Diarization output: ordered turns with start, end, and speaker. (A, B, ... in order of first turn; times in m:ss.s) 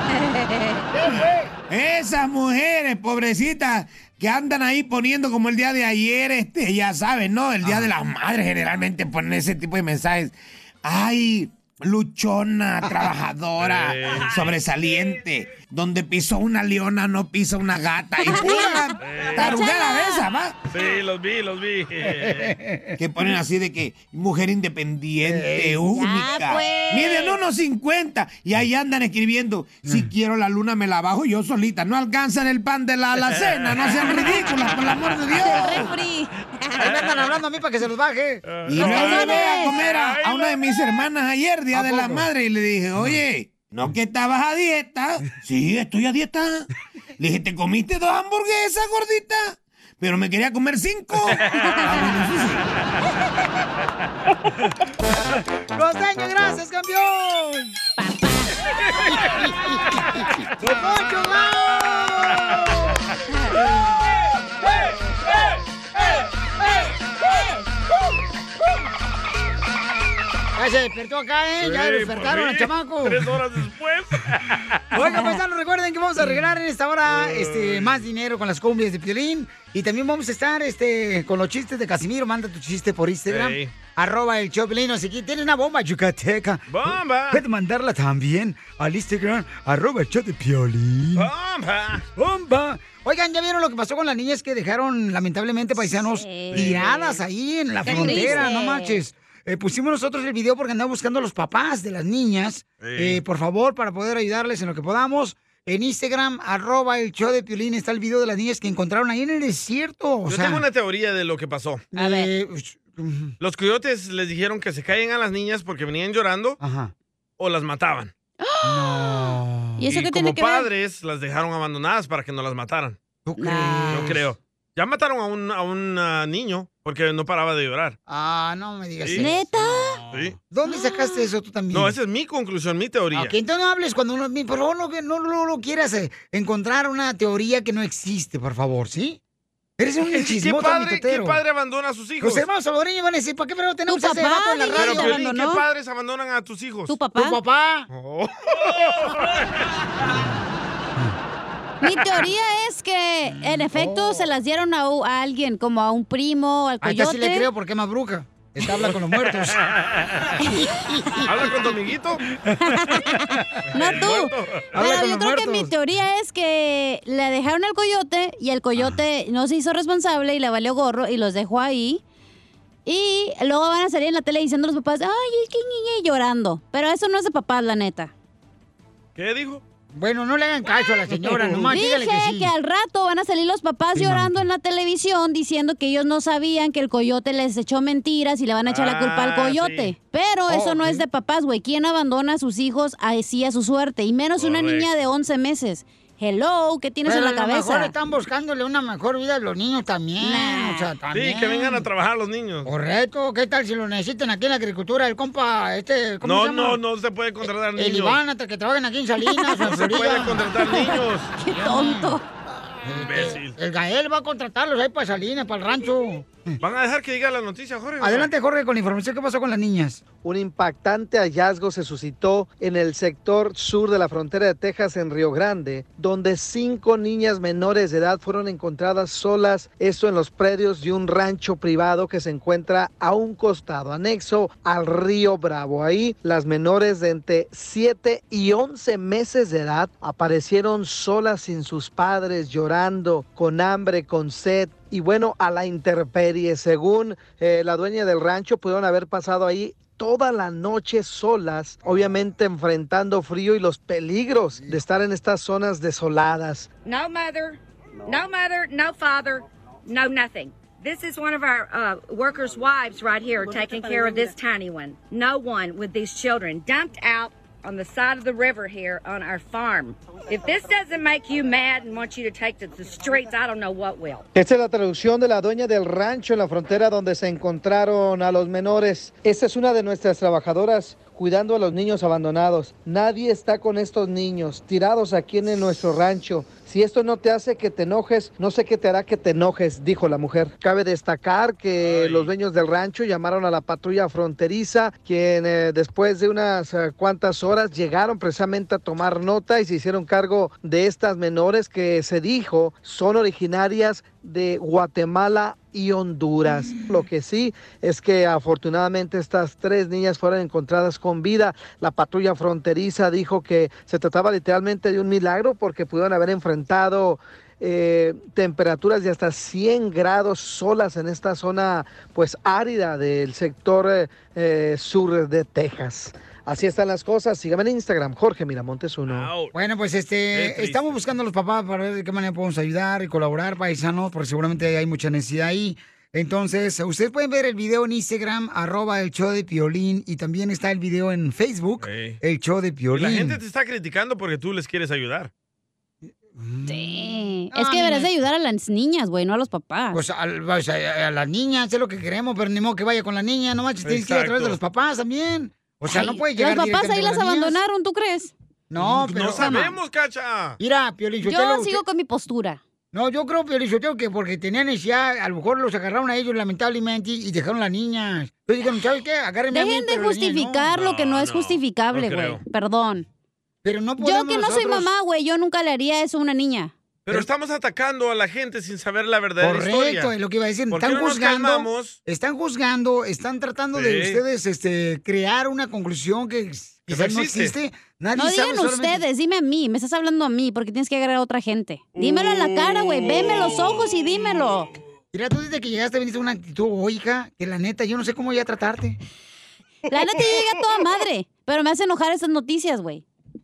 0:00.1-0:00.8 A
0:00.9-0:01.5 B
0:01.7-0:20.6 C
0:13.6-0:14.5 D
0:18.2-0:20.3 A
0:19.0-0:19.5 D
0:20.7-0:22.5 D
0:22.2-0:23.0 B
0:23.0-0:35.9 C
0:25.2-0:25.8 B
0:25.9-0:27.4 A
0:33.5-0:33.8 D
0:34.1-0:34.4 A
0:35.3-0:36.3 A
0:36.8-0:38.4 B
0:38.5-0:40.6 D
0:38.7-0:46.7 C
0:38.8-0:39.8 A
0:41.7-0:42.3 B
0:47.2-0:52.6 C
0:55.7-0:57.8 B
0:58.0-0:58.5 A
0:59.1-0:59.8 B
1:00.6-1:02.9 B
1:10.6-1:13.2 B
1:11.6-1:14.8 D
1:14.9-1:26.7 B
1:15.0-1:15.4 A
1:17.1-1:18.0 D
1:23.3-1:23.7 D
1:26.7-1:27.4 D
1:27.3-1:31.3 B
1:31.2-1:32.0 D
1:32.2-1:50.6 B
1:35.8-1:36.9 A
1:36.5-1:37.2 D
1:37.8-1:39.0 A
1:37.9-1:38.3 D
1:42.8-1:43.2 D
1:50.3-1:51.8 D
1:51.9-1:53.3 B
1:51.9-1:52.3 A
1:53.4-1:56.6 D
1:56.6-1:56.9 B
1:57.4-1:58.1 D
1:58.4-2:00.7 A
1:58.6-1:59.8 B
1:59.9-2:03.0 D
2:03.2-2:04.2 B
2:03.4-2:04.1 A
2:03.9-2:08.0 D
2:08.1-2:09.4 B
2:09.0-2:09.3 D
2:09.2-2:10.0 A
2:10.5-2:11.9 B
2:10.6-2:11.2 A
2:11.7-2:13.3 D
2:13.1-2:19.2 B
2:19.8-2:21.4 B
2:20.0-2:22.4 D
2:22.2-2:25.2 B
2:23.9-2:25.6 A
2:24.7-2:27.0 D
2:26.9-2:27.4 A
2:27.1-2:27.9 B
2:27.9-2:29.3 D
2:30.0-2:30.4 B
2:31.8-2:37.5 A
2:33.5-2:34.2 B
2:36.8-2:39.6 B
2:39.6-2:40.2 D
2:40.8-2:41.3 B
2:41.2-2:42.2 D
2:42.6-2:52.0 A
2:43.7-2:44.7 D
2:44.7-2:45.7 B
2:52.8-2:58.1 A
2:59.2-2:59.6 D
2:59.9-3:02.5 B
3:01.2-3:01.6 D
3:01.7-3:17.9 A
3:03.9-3:04.4 B
3:08.6-3:09.9 D
3:10.5-3:11.0 B
3:14.4-3:14.9 D
3:17.0-3:21.8 B
3:20.2-3:20.9 A
3:21.1-3:22.7 D
3:22.6-3:26.8 B
3:26.2-3:28.2 D
3:27.8-3:30.4 B
3:29.2-3:29.8 A
3:29.6-3:31.3 D
3:30.5-3:32.2 A
3:31.5-3:32.2 B
3:32.8-3:36.6 B
3:33.0-3:33.5 D
3:36.6-3:38.3 D
3:38.0-3:40.0 B
3:40.2-4:16.7 E
4:16.8-4:34.3 F
4:34.3-5:29.3 E
4:51.8-4:52.3 D
5:29.1-5:29.5 D
5:29.5-5:43.4 B
5:30.3-5:31.0 D
5:41.8-5:42.2 D
5:42.9-5:45.3 D
5:46.0-5:48.1 B
5:46.6-5:50.0 A
5:49.9-5:57.6 B
5:53.8-5:54.6 D
5:55.9-5:58.3 A
5:58.7-5:59.7 B
5:58.8-6:00.6 D
6:00.6-6:01.8 B
6:01.2-6:02.6 A
6:02.9-6:10.7 B
6:09.5-6:13.0 A
6:10.7-6:12.4 D
6:13.6-6:14.9 B
6:14.0-6:16.7 A
6:17.0-6:20.1 D
6:19.4-6:29.0 B
6:20.7-6:22.0 D
6:23.7-6:24.2 D
6:26.9-6:27.5 D
6:28.2-6:34.7 A
6:32.0-6:33.8 D
6:35.1-6:39.0 B
6:39.9-6:43.0 A